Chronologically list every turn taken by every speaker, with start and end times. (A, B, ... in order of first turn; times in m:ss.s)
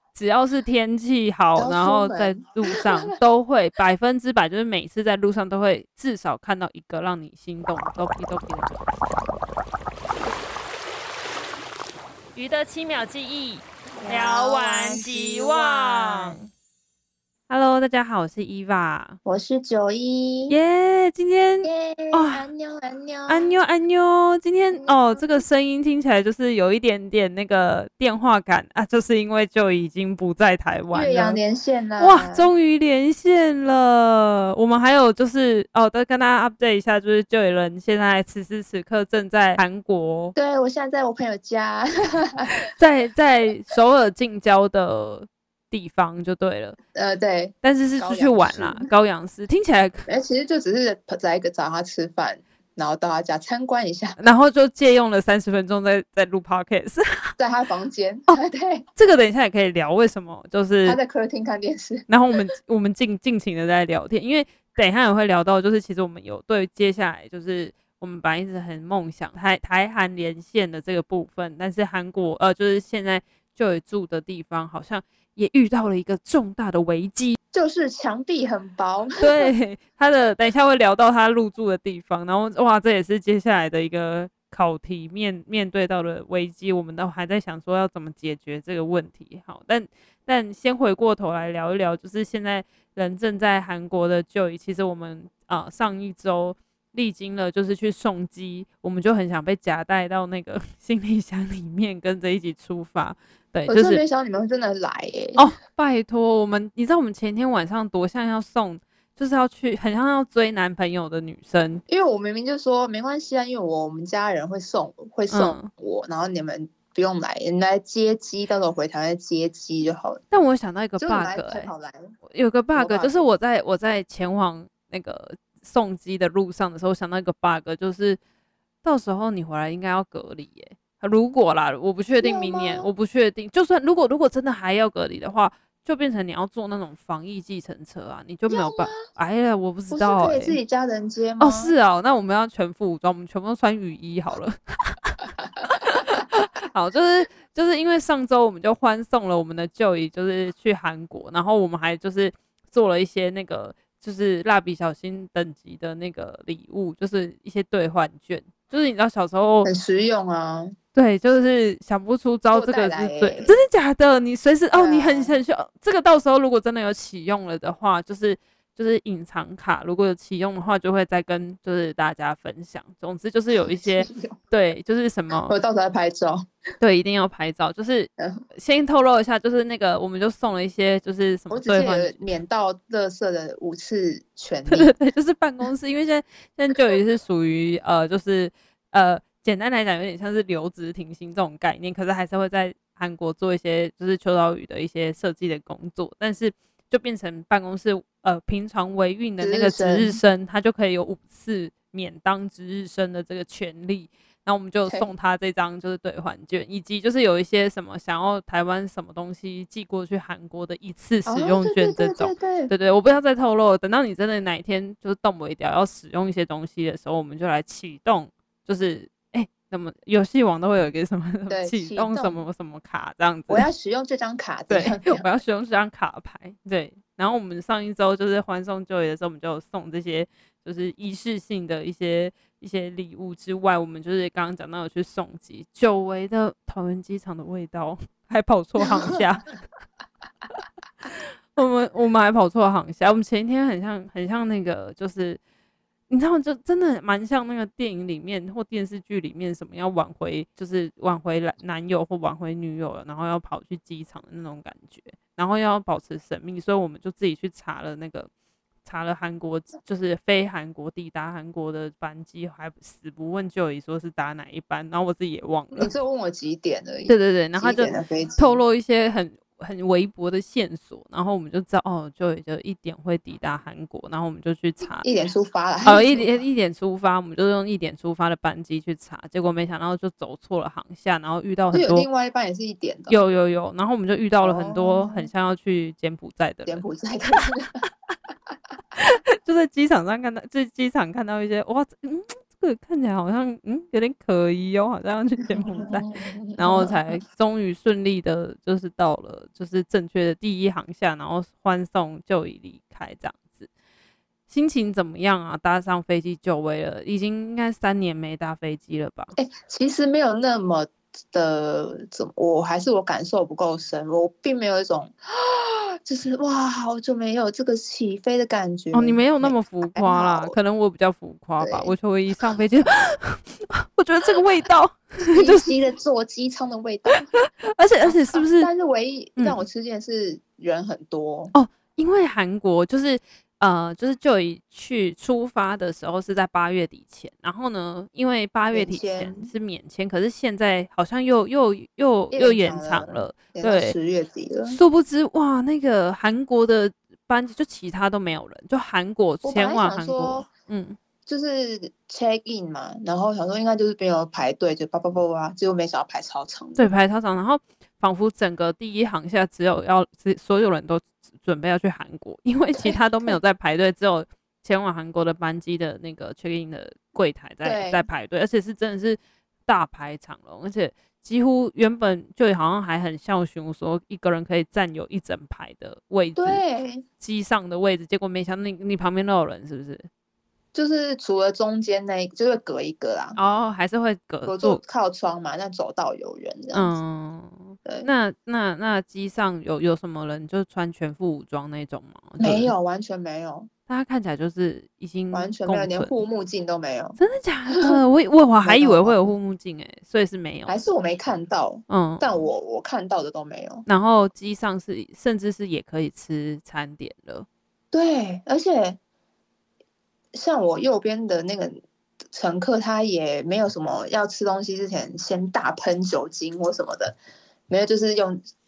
0:00.2-0:09.2 A
0:01.6-0:03.1 B
0:12.4-0:16.4 A
0:14.0-0:16.5 B
0:17.5-0:19.2 A
0:19.2-0:20.6 B
0:20.5-0:22.5 A
0:21.6-0:23.6 B
0:23.3-0:31.4 A
0:24.7-0:25.4 B
0:30.9-0:32.5 B
0:32.0-0:40.3 A
0:40.4-0:42.5 B
0:42.8-0:46.8 A
0:46.9-0:48.9 B
0:47.6-0:50.0 A
0:50.1-0:54.2 B
0:54.2-0:57.3 A
0:57.4-0:58.8 B
0:59.0-1:01.0 A
1:00.8-1:02.0 B
1:02.1-1:17.4 A
1:17.5-1:19.5 B
1:19.2-1:44.0 A
1:43.7-1:45.5 B
1:45.4-1:51.8 A
1:51.9-2:00.2 B
1:55.3-1:55.7 A
2:00.3-2:01.7 A
2:01.0-2:02.1 B
2:02.3-2:08.2 A
2:02.8-2:03.3 B
2:08.8-2:20.6 A
2:12.2-2:12.9 B
2:18.5-2:19.0 B
2:19.9-2:21.7 B
2:21.4-2:39.7 A
2:25.6-2:26.2 B
2:39.6-2:40.8 B
2:41.0-2:55.5 A
2:42.5-2:43.6 B
2:44.7-2:45.4 B
2:53.8-2:54.4 B
2:55.5-2:56.4 B
2:56.8-3:02.2 A
2:58.2-2:58.4 B
3:01.5-3:04.9 B
3:04.7-3:43.7 A
3:19.4-3:20.2 B
3:31.3-3:32.7 B
3:41.5-3:42.4 B
3:43.5-3:45.3 B
3:44.7-3:59.5 A
4:01.1-4:05.4 A
4:06.1-4:18.3 A
4:18.8-4:25.9 A
4:25.8-4:28.6 B
4:27.1-4:35.1 A
4:35.0-4:36.4 B
4:35.9-4:42.1 A
4:41.7-4:43.2 B
4:43.1-4:46.8 A
4:44.4-4:45.3 B
4:46.7-4:47.8 B
4:49.0-5:03.7 A
4:55.4-4:57.0 B
5:04.5-5:09.3 A
5:09.4-5:20.6 B
5:18.9-5:25.7 A
5:21.6-5:21.9 B
5:25.3-5:27.3 B
5:27.1-5:28.7 A
5:28.0-5:31.5 B
5:29.4-5:29.6 A
5:31.5-5:44.0 A
5:38.7-5:39.5 B
5:42.3-5:44.8 B
5:44.7-5:51.0 A
5:49.4-5:50.5 B
5:51.3-5:56.9 B
5:56.8-6:16.6 A
6:02.7-6:03.4 B
6:07.6-6:08.0 B
6:16.4-6:17.1 B
6:17.2-6:20.1 A
6:20.7-6:23.4 B
6:23.4-6:24.8 A
6:24.5-6:26.9 B
6:26.7-6:32.7 A
6:32.4-6:33.7 B
6:33.9-6:36.2 A
6:35.3-6:37.2 B
6:37.2-6:40.8 A
6:37.7-6:38.0 B
6:38.6-6:39.2 B
6:40.7-6:43.8 B
6:41.9-6:42.4 A
6:43.9-6:47.5 A
6:47.9-6:49.0 B
6:50.3-6:51.8 B
6:52.3-6:57.2 B
6:57.7-6:58.4 B